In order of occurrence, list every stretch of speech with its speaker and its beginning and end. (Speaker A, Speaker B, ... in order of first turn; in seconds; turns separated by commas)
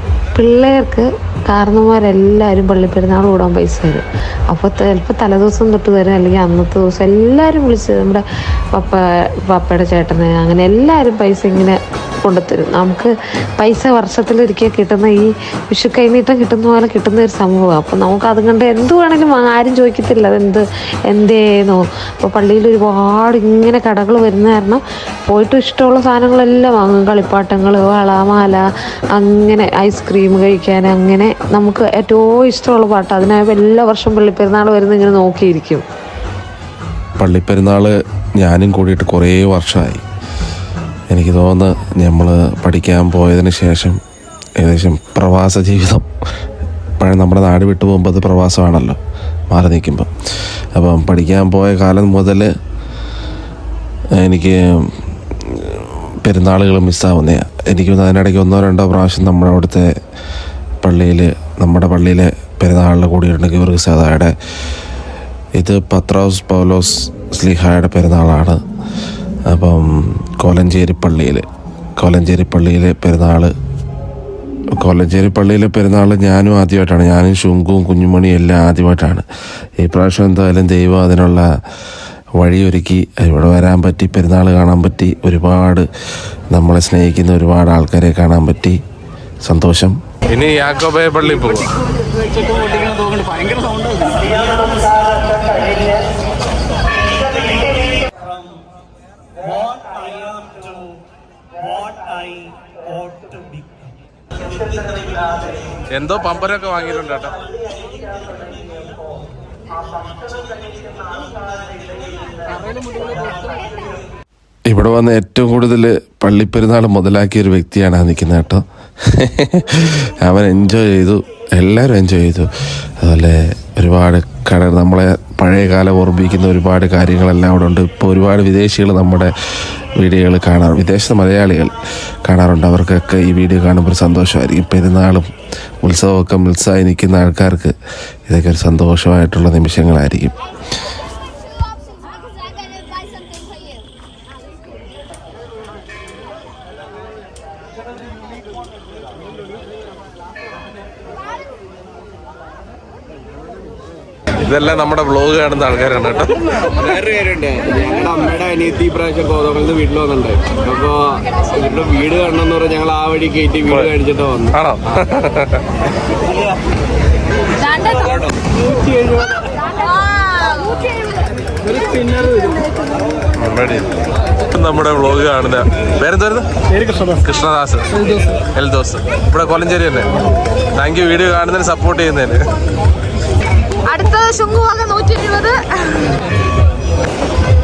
Speaker A: 0.3-35.8, Speaker B: 37.2-40.0, Speaker B: 41.1-44.0, Speaker B: 44.6-46.1, Speaker B: 47.0-49.0, Speaker B: 49.5-50.1, Speaker B: 50.7-52.5, Speaker B: 54.2-59.9, Speaker B: 60.8-64.3, Speaker B: 65.6-68.6, Speaker B: 69.5-71.4, Speaker B: 72.0-73.5, Speaker B: 74.8-79.2, Speaker B: 79.8-81.5, Speaker B: 82.4-85.9, Speaker B: 86.5-88.8, Speaker B: 89.4-90.0, Speaker C: 90.3-91.8, Speaker C: 105.9-107.3, Speaker B: 114.7-122.5, Speaker B: 123.0-129.3, Speaker B: 130.0-131.7, Speaker B: 132.2-135.3, Speaker B: 135.8-137.7, Speaker B: 138.3-140.3, Speaker C: 154.4-156.5, Speaker D: 156.7-164.5, Speaker C: 164.5-165.6, Speaker E: 167.6-168.3, Speaker D: 167.9-169.4, Speaker E: 169.7-172.9, Speaker C: 173.4-173.9, Speaker C: 174.5-176.4, Speaker C: 177.2-177.8, Speaker C: 178.5-180.1, Speaker C: 180.7-182.4, Speaker E: 183.8-186.1